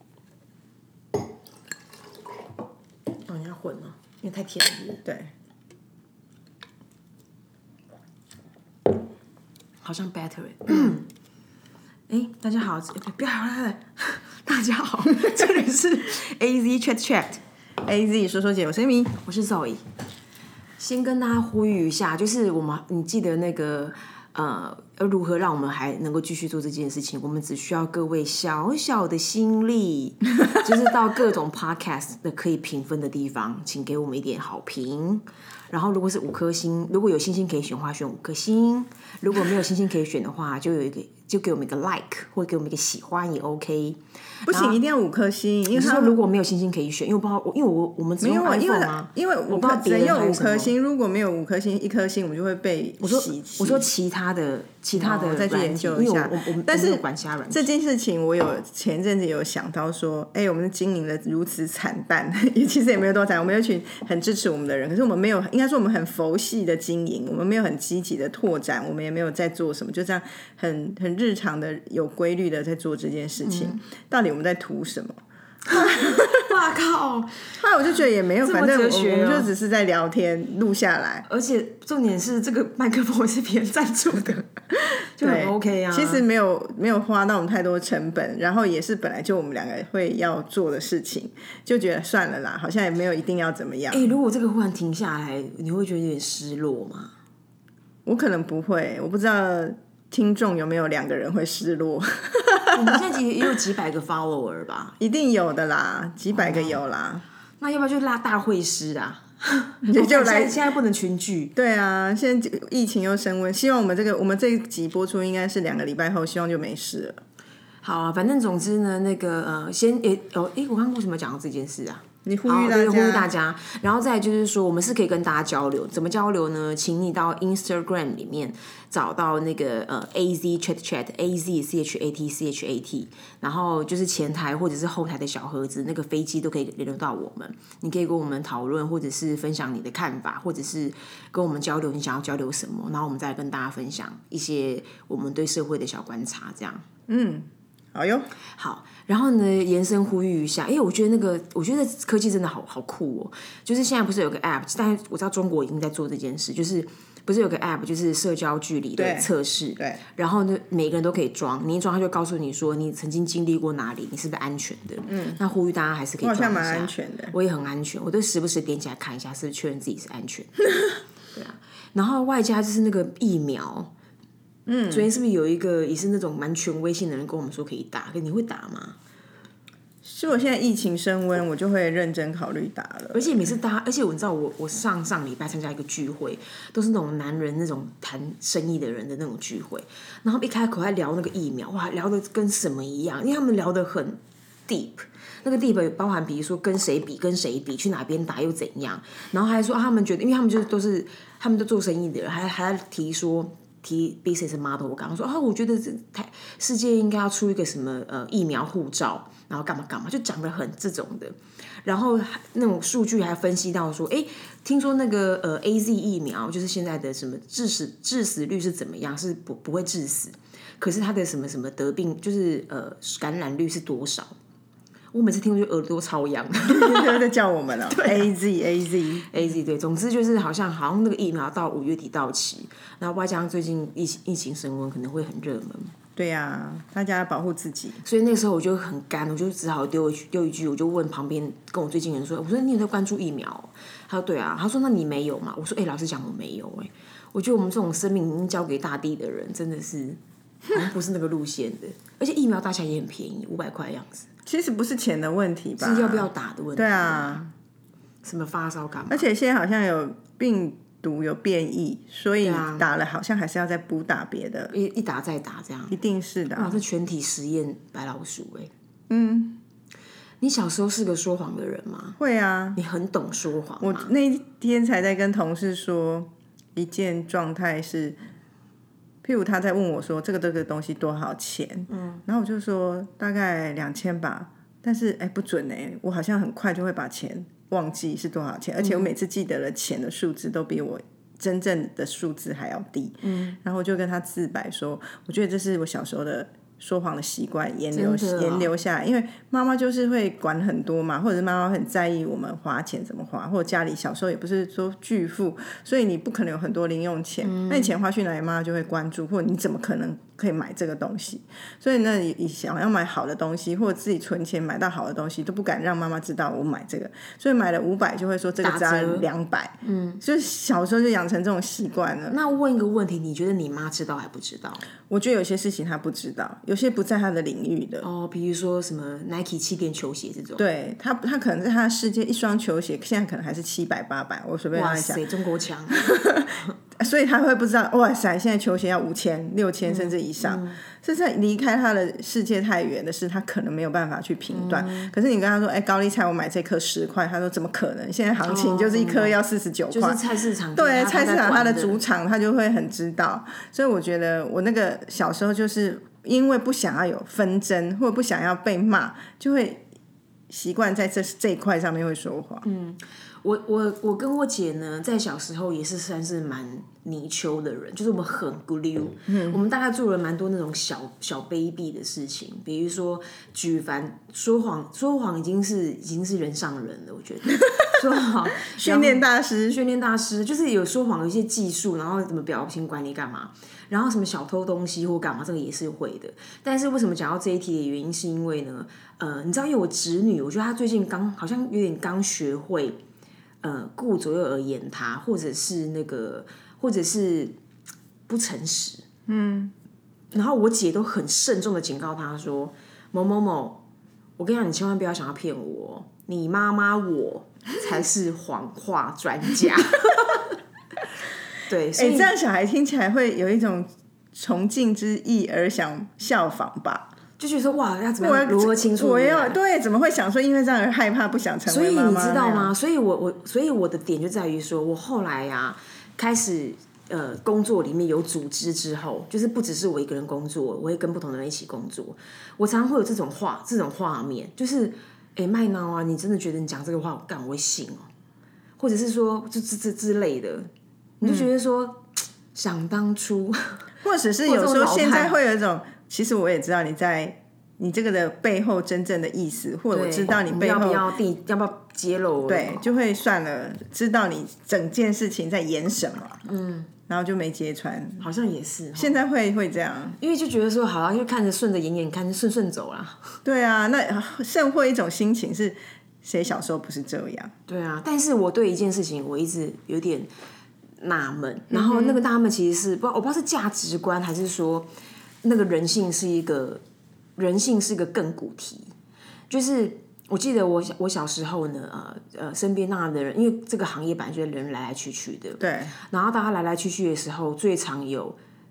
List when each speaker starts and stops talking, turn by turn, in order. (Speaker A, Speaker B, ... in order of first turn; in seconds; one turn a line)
Speaker A: 3.2-5.0
Speaker B: 5.0-5.3
Speaker A: 9.8-11.1
Speaker A: 12.1-17.4
Speaker B: 17.8-19.2
Speaker A: 19.2-19.8
Speaker A: 20.8-44.8
Speaker B: 44.5-46.2
Speaker A: 45.7-50.7
Speaker B: 48.2-53.9
Speaker A: 53.0-57.7
Speaker B: 54.9-75.2
Speaker A: 73.4-73.8
Speaker A: 75.7-77.6
Speaker B: 75.7-76.4
Speaker B: 77.5-81.2
Speaker A: 78.4-79.5
Speaker A: 81.2-86.2
Speaker B: 85.2-94.1
Speaker A: 93.9-97.1
Speaker B: 98.0-103.0
Speaker A: 102.7-105.0
Speaker B: 105.0-107.2
Speaker A: 106.3-106.8
Speaker A: 107.6-111.5
Speaker B: 109.8-110.6
Speaker B: 111.5-117.2
Speaker A: 117.8-146.8
Speaker B: 122.2-123.3
Speaker B: 147.1-148.3
Speaker A: 148.6-170.6
Speaker B: 158.9-160.0
Speaker B: 165.1-165.4
Speaker B: 166.2-167.3
Speaker A: 171.3-173.9
Speaker B: 174.7-175.1
Speaker A: 174.9-179.0
Speaker B: 180.0-183.3
Speaker A: 183.1-224.3
Speaker A: 225.1-227.3
Speaker B: 226.7-229.3
Speaker A: 227.9-228.3
Speaker A: 229.3-235.9
Speaker B: 236.2-238.0
Speaker A: 238.0-254.3
Speaker B: 254.4-257.5
Speaker A: 255.8-257.4
Speaker A: 258.2-259.3
Speaker B: 259.1-264.7
Speaker A: 262.4-262.9
Speaker A: 264.7-266.0
Speaker B: 265.9-266.8
Speaker A: 266.5-268.7
Speaker B: 269.1-269.6
Speaker A: 270.4-272.2
Speaker B: 272.2-272.8
Speaker A: 272.7-274.1
Speaker B: 273.8-278.2
Speaker B: 279.2-322.4
Speaker A: 281.9-282.2
Speaker A: 288.8-289.1
Speaker A: 293.2-293.6
Speaker A: 297.9-298.7
Speaker A: 307.4-308.0
Speaker A: 318.6-319.3
Speaker A: 319.8-320.2
Speaker A: 322.3-324.8
Speaker B: 325.1-328.1
Speaker A: 328.0-330.6
Speaker B: 330.6-335.2
Speaker A: 334.7-336.2
Speaker B: 336.0-350.2
Speaker A: 339.9-340.8
Speaker A: 344.5-345.1
Speaker A: 348.4-349.4
Speaker A: 349.9-352.0
Speaker B: 350.7-359.8
Speaker B: 360.5-362.6
Speaker A: 362.6-393.0
Speaker B: 369.3-369.6
Speaker B: 378.6-379.8
Speaker A: 393.6-397.5
Speaker A: 398.3-399.1
Speaker B: 399.3-399.7
Speaker A: 400.3-403.8
Speaker A: 404.4-410.5
Speaker A: 411.7-412.3
Speaker B: 411.9-417.1
Speaker A: 417.4-419.6
Speaker B: 418.2-422.7
Speaker A: 421.6-438.1
Speaker A: 438.8-443.9
Speaker B: 444.0-451.1
Speaker A: 444.4-445.4
Speaker A: 449.9-452.8
Speaker B: 452.4-456.4
Speaker A: 456.4-456.9
Speaker B: 457.1-458.2
Speaker A: 458.2-459.2
Speaker B: 458.9-460.2
Speaker A: 460.2-463.4
Speaker B: 463.4-467.5
Speaker A: 467.7-470.3
Speaker A: 471.0-474.9
Speaker B: 471.7-472.2
Speaker A: 475.4-476.8
Speaker A: 477.4-478.9
Speaker A: 479.5-488.4
Speaker B: 485.6-485.9